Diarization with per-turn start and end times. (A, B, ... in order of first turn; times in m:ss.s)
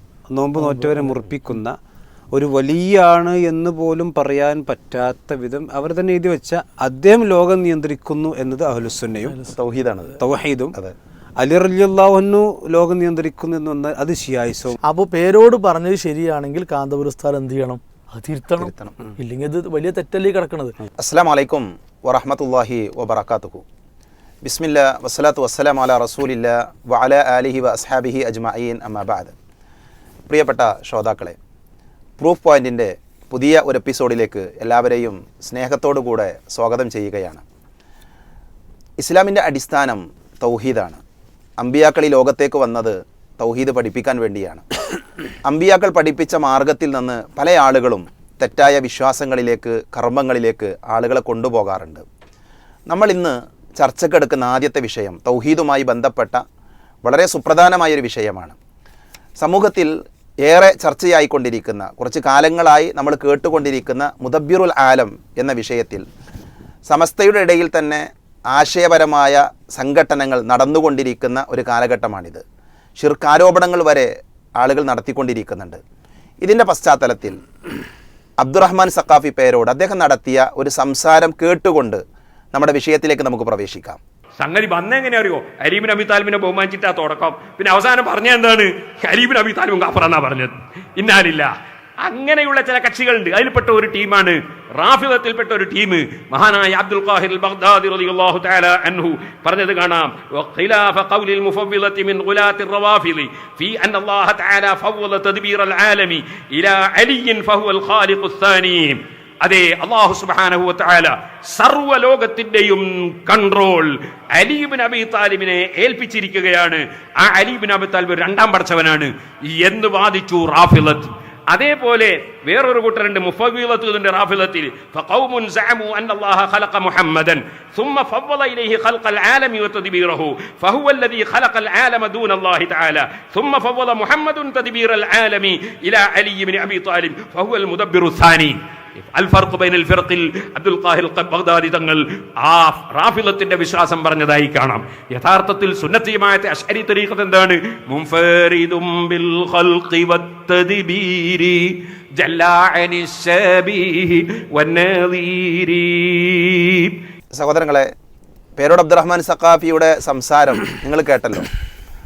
0:00.3-0:01.8 A
0:00.6-0:01.0 B
0:02.3-0:09.4 A
0:09.3-0:09.6 B
0:09.5-0:10.2 C
0:10.2-0:10.8 A
0:11.4-0:14.8 A
0:14.8-0:20.8 B
0:18.6-0:19.0 C
0:21.0-0:23.6 C
0:24.4-0:29.4 C
0:30.3-0:31.4 C
0:32.2-0:37.4 C
0:39.0-0:41.0 C
0:41.6-0:44.7 C
0:45.4-0:52.0 C
0:52.9-0:56.4 C
0:57.0-0:58.6 C
0:59.4-0:59.9 C
1:00.4-1:06.1 C
1:06.9-1:12.4 C
1:13.0-1:15.8 C
1:16.4-1:17.4 C
1:18.4-1:22.0 C
1:22.5-1:24.0 C
1:24.4-2:37.0 D
2:37.3-2:37.9 C
2:38.6-2:41.5 C